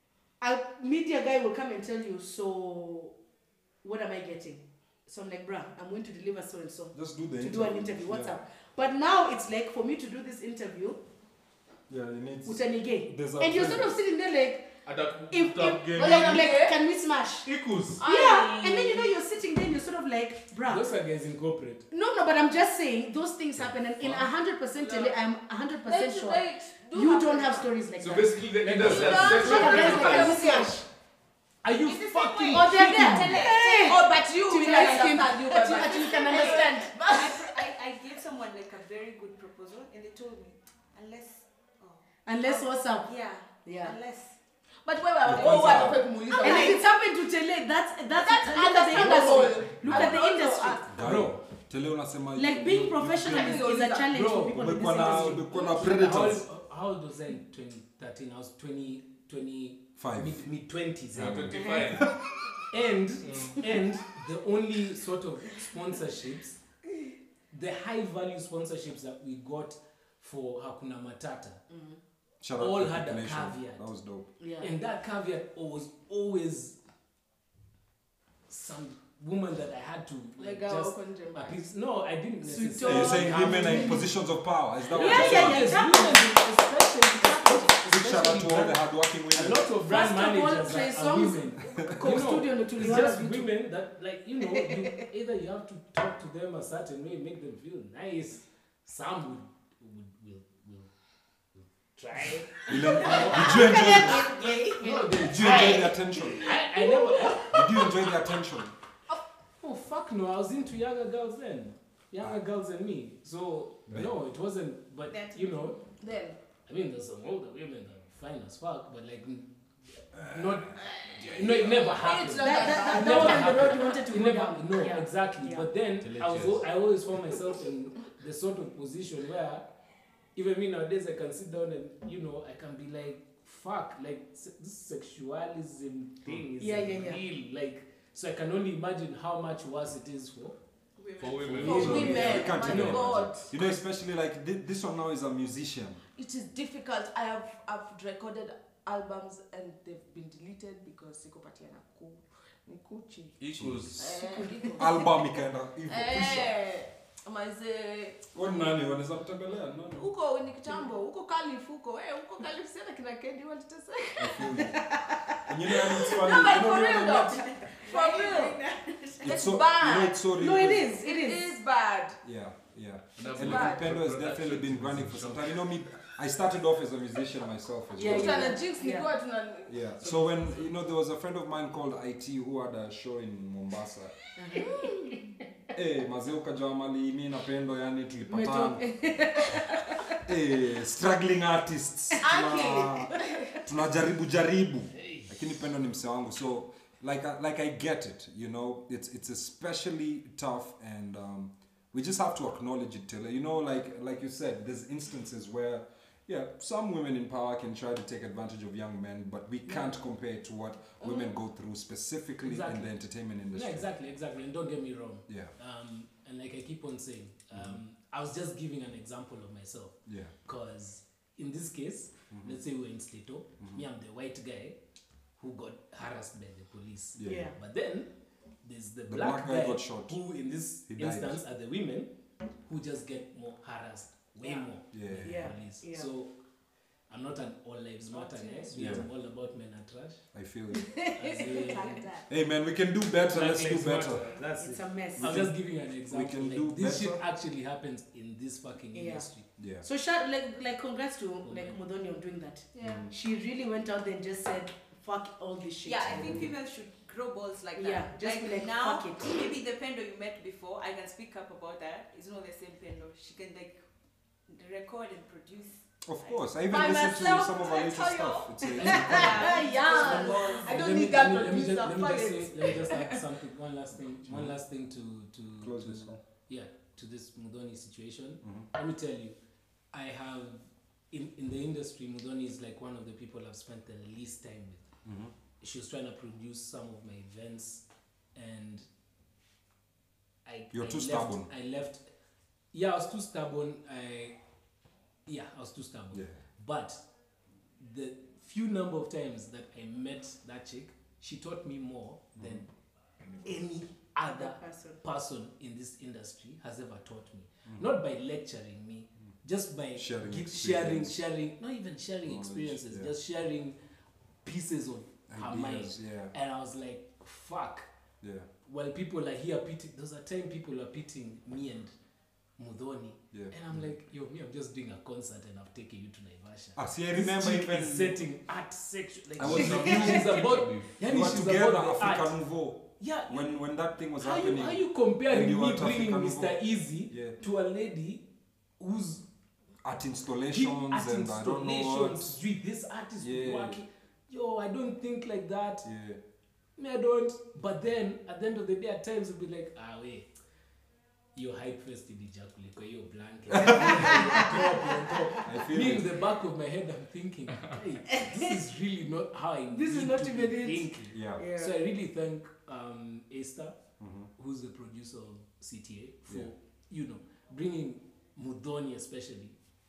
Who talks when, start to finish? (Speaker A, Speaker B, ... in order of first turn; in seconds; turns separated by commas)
Speaker A: 0.4-3.1, Speaker A: 3.8-11.0, Speaker B: 6.9-8.3, Speaker B: 11.9-13.9, Speaker A: 12.4-14.7, Speaker C: 14.9-16.5, Speaker A: 15.3-17.5, Speaker D: 15.9-16.8, Speaker C: 17.4-18.0, Speaker D: 18.0-19.2, Speaker A: 18.0-20.9, Speaker E: 20.7-21.9, Speaker A: 21.9-30.9, Speaker C: 23.6-24.3, Speaker D: 24.8-25.1, Speaker D: 25.9-27.7, Speaker C: 28.0-30.6, Speaker E: 28.6-29.7, Speaker D: 28.8-30.8, Speaker E: 31.6-33.5, Speaker F: 31.8-34.0, Speaker A: 32.5-36.9, Speaker D: 33.4-37.7, Speaker F: 34.6-44.4, Speaker A: 42.3-43.1, Speaker A: 43.6-43.9, Speaker D: 44.8-46.8, Speaker B: 45.2-46.0, Speaker F: 46.3-46.8, Speaker A: 46.4-50.9, Speaker D: 48.1-50.9, Speaker E: 48.9-49.8, Speaker B: 49.8-50.1, Speaker B: 50.9-53.6, Speaker E: 51.0-51.4, Speaker A: 52.3-55.5, Speaker D: 53.3-54.2, Speaker E: 54.0-61.6, Speaker B: 54.5-56.4, Speaker B: 60.0-60.5, Speaker B: 61.1-62.2, Speaker C: 61.1-62.1, Speaker A: 61.6-62.0, Speaker E: 62.7-66.6, Speaker C: 63.2-63.6, Speaker E: 67.5-71.6, Speaker A: 71.7-72.0, Speaker B: 72.4-74.3, Speaker E: 72.6-73.8, Speaker A: 74.4-74.7, Speaker E: 74.6-76.8, Speaker E: 78.5-84.0, Speaker D: 80.4-81.6, Speaker A: 82.4-84.1, Speaker B: 82.8-85.8, Speaker A: 84.9-86.4, Speaker E: 84.9-100.9, Speaker A: 87.3-87.7, Speaker B: 87.8-89.7, Speaker A: 89.8-93.5, Speaker B: 91.6-93.1, Speaker E: 101.6-104.1, Speaker B: 102.7-104.3, Speaker F: 103.4-104.7, Speaker D: 103.4-108.1, Speaker E: 104.8-107.6, Speaker B: 105.1-106.5, Speaker B: 107.5-108.7, Speaker E: 109.6-115.8, Speaker F: 115.1-116.0, Speaker D: 116.0-116.4, Speaker E: 116.7-129.7, Speaker B: 120.1-121.8, Speaker D: 121.0-123.8, Speaker A: 122.4-125.7, Speaker C: 126.0-126.6, Speaker E: 130.4-140.6, Speaker A: 136.6-137.2, Speaker F: 141.0-141.9, Speaker C: 141.2-143.3, Speaker E: 141.4-143.3, Speaker D: 141.5-143.5, Speaker B: 141.7-146.0, Speaker D: 146.2-153.4, Speaker C: 153.4-154.1, Speaker B: 153.5-154.1, Speaker D: 154.0-155.3, Speaker A: 154.2-154.8, Speaker B: 154.8-156.5, Speaker D: 155.9-158.8, Speaker B: 158.3-160.1, Speaker D: 159.9-164.7, Speaker B: 164.2-164.8, Speaker B: 165.4-167.4, Speaker D: 165.7-168.6, Speaker F: 167.5-169.3, Speaker B: 169.2-170.9, Speaker D: 169.2-172.2, Speaker A: 170.4-171.5, Speaker B: 172.2-178.6, Speaker C: 173.2-175.6, Speaker D: 173.3-173.9, Speaker A: 177.9-179.1, Speaker D: 178.0-179.8, Speaker B: 179.7-184.1, Speaker A: 184.4-185.2, Speaker D: 184.6-185.1, Speaker B: 185.7-188.8, Speaker A: 188.3-190.2, Speaker B: 190.2-213.9, Speaker D: 192.2-193.6, Speaker D: 211.0-211.3, Speaker E: 212.4-212.9, Speaker E: 213.5-224.8, Speaker B: 220.1-220.3, Speaker E: 225.4-228.1, Speaker B: 227.2-227.5, Speaker A: 227.2-227.6, Speaker E: 228.6-232.1, Speaker B: 229.1-230.2, Speaker B: 230.9-231.4, Speaker E: 232.7-236.3, Speaker B: 234.9-235.5, Speaker A: 235.2-236.1, Speaker E: 237.1-240.2, Speaker D: 238.2-238.9, Speaker B: 238.8-239.1, Speaker B: 240.3-240.9, Speaker A: 240.7-241.8, Speaker E: 241.2-242.0, Speaker D: 241.4-242.3, Speaker B: 242.3-244.3, Speaker E: 243.3-249.4, Speaker A: 244.6-245.4, Speaker B: 245.2-245.5, Speaker B: 246.1-247.2, Speaker A: 248.9-249.2, Speaker B: 249.6-249.9, Speaker A: 249.8-256.5, Speaker E: 251.4-251.8, Speaker F: 252.8-253.0, Speaker B: 252.8-253.1, Speaker F: 255.8-263.8, Speaker B: 256.1-256.5, Speaker A: 257.7-259.5, Speaker F: 264.5-266.4, Speaker B: 266.1-270.1, Speaker D: 266.7-273.0, Speaker A: 268.6-269.5, Speaker F: 268.8-270.6, Speaker E: 270.5-279.4, Speaker B: 274.3-274.5, Speaker B: 275.6-276.2, Speaker E: 279.9-284.9, Speaker B: 285.1-285.3, Speaker E: 285.6-288.9, Speaker E: 290.4-292.1, Speaker B: 290.7-291.5, Speaker E: 292.7-294.4, Speaker E: 295.3-297.0, Speaker B: 296.1-296.4, Speaker E: 297.8-302.7, Speaker B: 302.4-302.6, Speaker C: 303.2-303.7, Speaker E: 303.4-313.8, Speaker A: 304.3-304.9, Speaker B: 309.9-311.2, Speaker B: 312.2-313.1, Speaker E: 314.4-317.9, Speaker B: 315.3-316.3, Speaker B: 318.2-318.5, Speaker E: 318.6-321.9, Speaker E: 322.6-332.4, Speaker B: 326.8-328.2, Speaker B: 329.4-330.4, Speaker C: 329.4-330.9, Speaker B: 331.0-337.4, Speaker E: 333.0-333.5, Speaker E: 334.2-338.2, Speaker E: 338.8-339.2, Speaker B: 339.8-342.4, Speaker E: 340.5-345.9, Speaker B: 343.2-343.8, Speaker B: 345.8-346.2, Speaker E: 346.8-350.3, Speaker E: 351.4-363.8, Speaker B: 353.5-354.6, Speaker A: 354.0-354.6, Speaker B: 355.4-356.1, Speaker A: 359.7-361.7, Speaker B: 361.1-361.5, Speaker B: 364.0-364.3, Speaker E: 364.4-369.6